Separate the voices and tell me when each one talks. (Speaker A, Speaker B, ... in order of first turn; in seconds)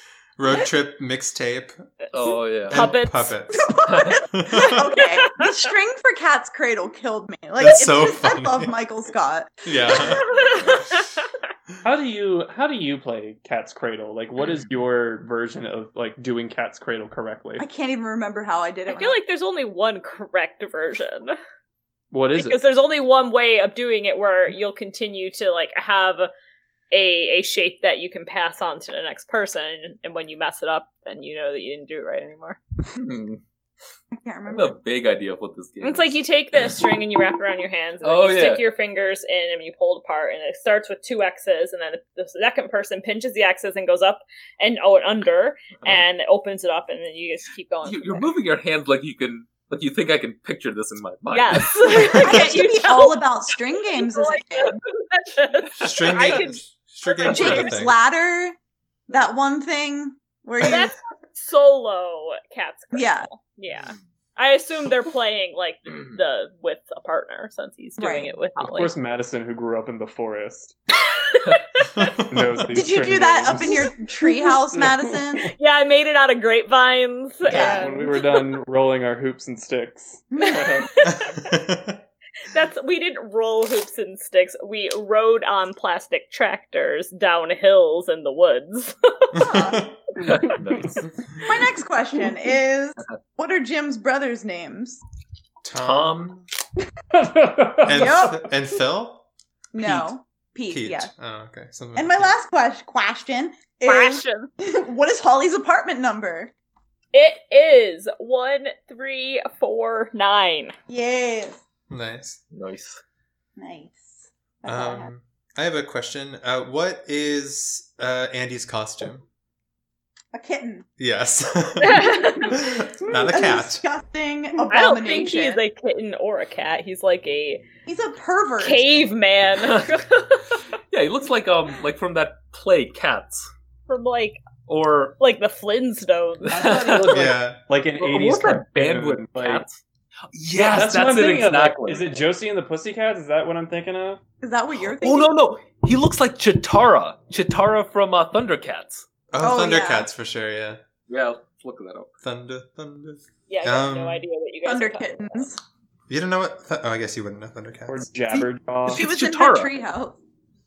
Speaker A: 0.4-1.8, 2.7-3.7, 4.2-4.8, 7.6-8.7, 9.7-10.6, 55.8-58.0, 72.0-72.2, 81.0-82.0, 89.3-90.0, 95.6-96.5, 97.8-99.2, 99.8-100.1, 100.7-102.3, 111.9-112.4, 114.7-119.2, 121.0-123.8, 137.1-137.6, 149.3-150.8, 152.2-154.2, 156.1-158.1
Speaker B: 2.1-3.0, 3.8-4.2, 32.9-33.4, 34.5-36.1, 38.0-38.6, 47.9-52.3, 90.2-91.0, 95.8-96.3, 112.5-113.0, 129.6-129.9, 130.9-133.5, 134.7-135.2, 136.5-137.1, 138.0-139.8, 140.3-142.1, 144.8-149.1, 151.1-152.1, 158.9-159.7
Speaker C: 2.7-3.4, 5.1-5.5, 10.0-11.1, 18.9-21.4, 22.4-26.3, 26.9-32.6, 35.8-48.3, 51.3-57.9, 60.6-68.9, 71.3-72.2, 75.5-78.2, 80.4-81.5, 82.5-89.7, 103.8-104.5, 107.1-110.8, 121.8-122.6, 124.7-127.6, 128.6-130.6, 133.9-134.4, 135.2-136.8, 153.5-155.4
Speaker D: 3.5-9.7, 17.6-19.2, 34.2-34.7, 51.8-54.8, 57.2-58.5, 59.1-60.9, 62.9-63.3, 68.0-68.3, 72.7-75.5, 77.5-77.9, 80.3-80.8, 89.4-89.8, 91.4-95.0, 97.9-98.5, 99.7-101.1, 102.0-106.5, 110.9-111.6, 113.6-115.1, 120.3-120.9, 123.1-125.6, 127.9-128.9, 144.4-145.3, 149.4-150.1, 154.7-155.6, 158.3-160.2
Speaker E: 11.8-17.7, 22.1-22.6, 68.6-70.8, 72.2-73.8, 77.5-80.2, 97.1-98.3, 136.5-139.7, 140.6-144.2, 157.9-159.1